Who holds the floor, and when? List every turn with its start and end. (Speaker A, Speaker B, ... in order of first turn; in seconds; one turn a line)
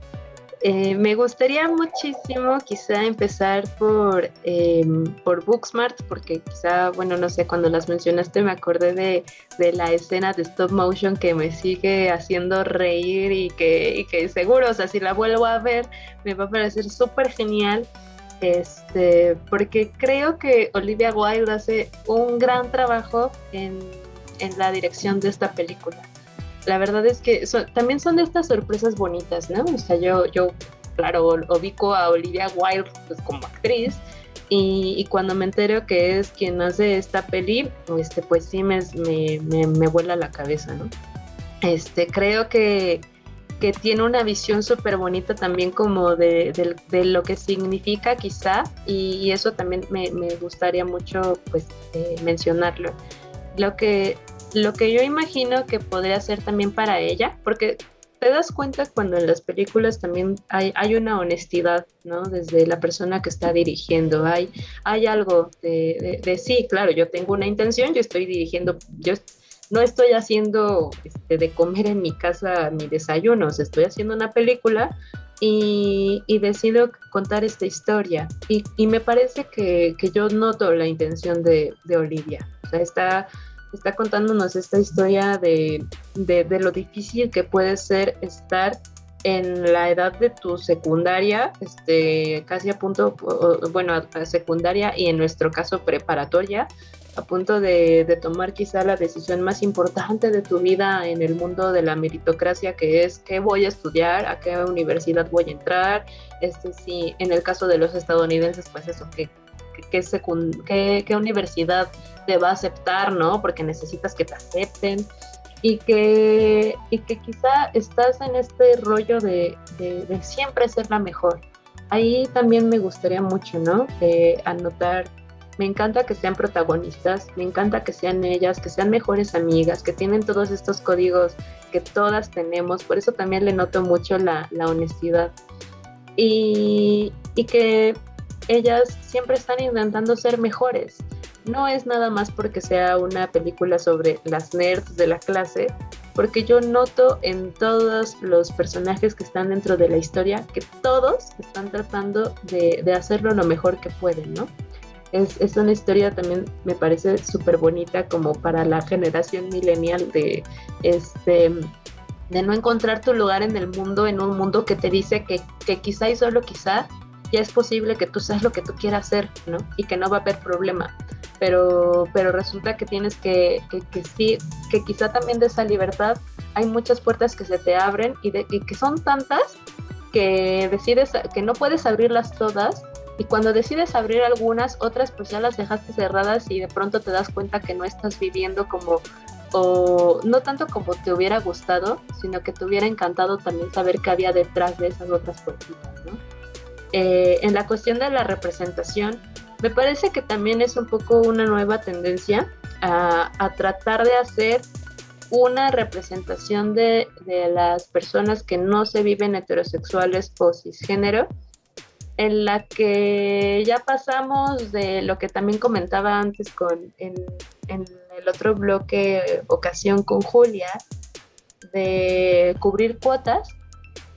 Speaker A: 0.6-17.9
Speaker A: 18.4-26.1
Speaker A: 26.6-40.9
Speaker A: 41.6-43.0
Speaker A: 43.6-53.0
Speaker A: 53.5-115.1
Speaker A: 115.6-135.3
Speaker A: 136.2-138.0
Speaker A: 138.5-154.5
Speaker A: 155.1-161.7
Speaker A: 162.3-179.6
Speaker A: 180.1-196.2
Speaker A: 196.9-204.6
Speaker A: 205.3-211.3
Speaker A: 212.2-220.8
Speaker A: 221.6-223.6